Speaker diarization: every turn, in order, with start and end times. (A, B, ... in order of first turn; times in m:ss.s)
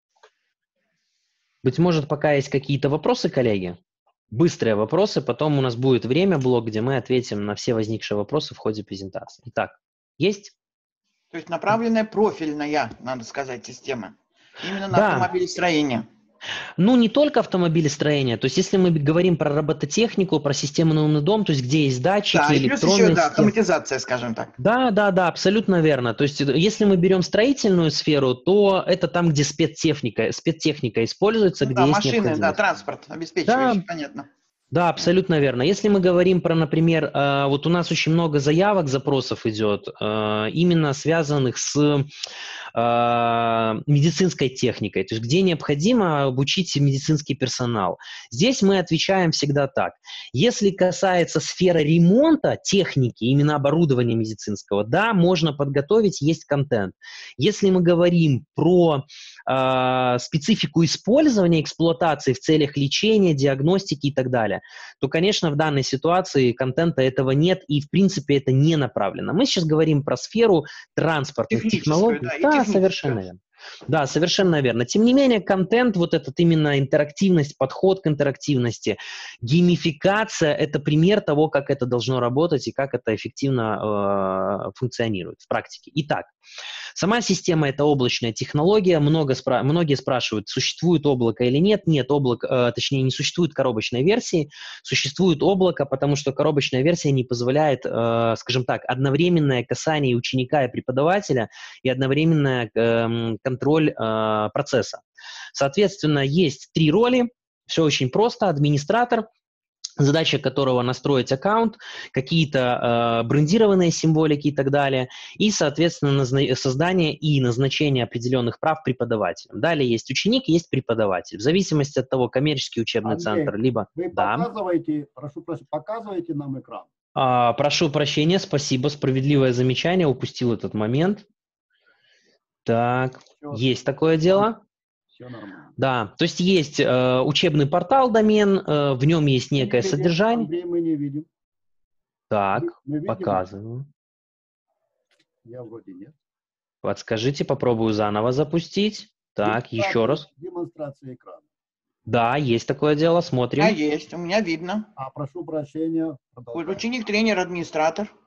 0:01.6-0:03.8 A
0:04.3-0:10.5 A
0:11.3-0:16.1 B
0:14.9-0:15.3 A
0:16.8-0:23.5 A
0:22.3-0:24.5 B
0:24.6-0:32.6 A
0:31.6-0:34.3 B
0:33.5-0:33.8 A
0:34.7-0:42.1 A
0:42.8-1:26.3 A
1:11.5-1:13.2 B
1:27.0-1:45.0 A
1:45.5-1:49.3 A
1:50.0-2:04.5 A
2:03.0-2:06.9 C
2:07.2-2:11.2 A
2:12.7-2:14.6 A
2:15.1-2:15.7 C
2:15.8-2:20.5 A
2:19.6-2:21.3 C
2:22.3-2:23.9 A
2:22.6-2:23.5 C
2:25.4-2:26.2 C
2:26.8-2:30.3 A
2:29.4-2:31.5 C
2:32.1-2:33.8 A
2:33.6-2:34.9 B
2:35.0-2:36.8 C
2:36.5-2:38.1 B